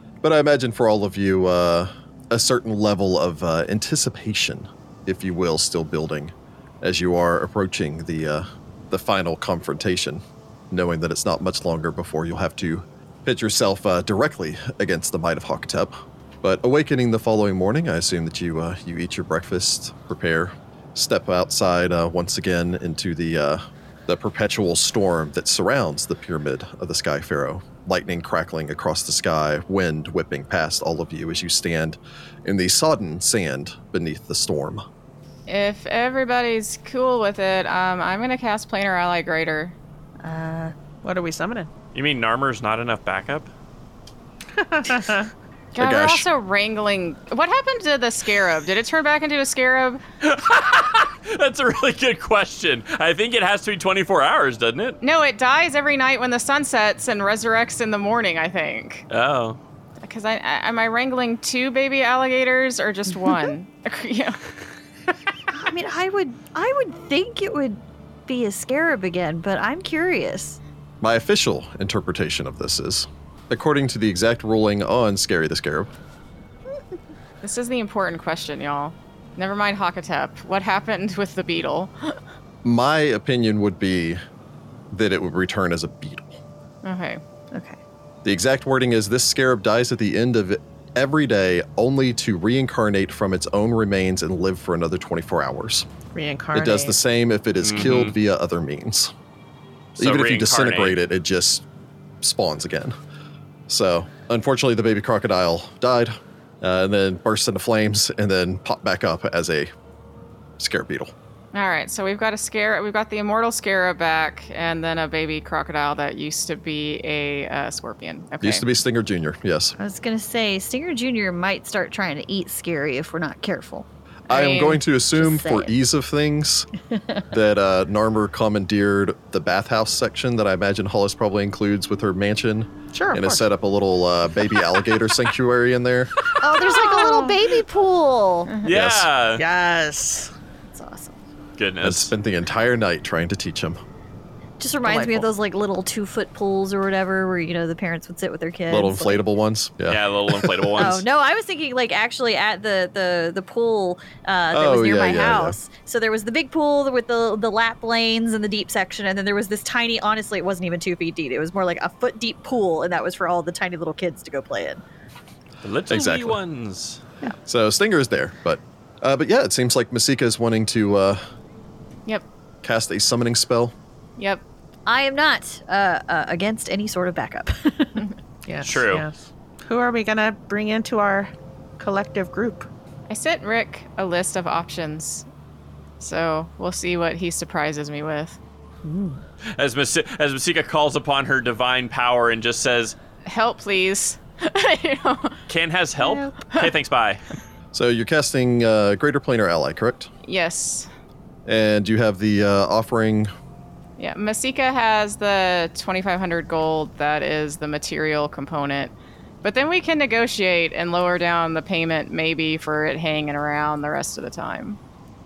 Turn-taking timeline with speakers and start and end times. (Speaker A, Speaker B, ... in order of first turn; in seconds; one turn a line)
Speaker A: 0.2-34.8
Speaker B: 35.5-39.8
Speaker C: 40.2-40.7
Speaker D: 41.0-41.7
Speaker E: 42.0-43.5
Speaker D: 44.6-45.3
Speaker B: 45.8-50.0
Speaker A: 45.8-46.3
Speaker E: 50.2-55.0
Speaker B: 55.0-59.1
Speaker E: 59.1-59.6
Speaker B: 60.0-64.4
Speaker C: 65.5-70.6
Speaker A: 71.0-75.9
Speaker B: 77.4-82.2
Speaker A: 82.6-84.2
Speaker A: 84.9-86.4
Speaker B: 86.8-87.2
Speaker C: 87.5-87.8
Speaker A: 88.2-95.9
Speaker D: 96.1-97.0
Speaker A: 96.5-99.1
Speaker E: 97.6-98.1
Speaker E: 100.0-101.0
Speaker A: 100.0-101.7
Speaker A: 102.2-102.9
Speaker A: 103.7-109.7
Speaker A: 110.6-111.1
Speaker B: 111.5-118.7
Speaker A: 118.4-119.8
Speaker C: 119.8-123.9
Speaker A: 124.3-126.7
Speaker B: 124.3-124.7
Speaker C: 125.2-125.7
Speaker C: 126.9-127.2
Speaker A: 127.3-136.3
Speaker D: 132.9-133.4
Speaker C: 136.4-138.7
Speaker D: 136.5-137.4
Speaker E: 138.6-139.4
Speaker A: 138.7-139.1
Speaker D: 139.4-140.3
Speaker C: 140.7-141.2
Speaker E: 141.6-142.1
Speaker A: 141.8-143.8
Speaker C: 144.6-149.2
Speaker D: 144.8-145.3
Speaker A: 148.7-150.9
Speaker E: 149.9-151.0
Speaker C: 150.8-164.8
Speaker A: 154.5-155.6
Speaker E: 165.6-167.0
Speaker A: 165.9-166.4
Speaker A: 167.5-171.2
Speaker A: 172.6-173.7
Speaker B: 174.2-174.4
Speaker C: 174.9-178.0
Speaker D: 178.5-182.7
Speaker E: 178.6-179.1
Speaker B: 183.1-185.3
Speaker B: 186.0-188.4
Speaker D: 188.8-189.2
Speaker E: 189.6-193.0
Speaker B: 193.2-195.4
Speaker E: 195.5-197.2
Speaker B: 196.2-196.7
Speaker A: 197.7-200.1
Speaker B: 200.2-200.9
Speaker A: 201.5-203.3
Speaker B: 204.0-214.8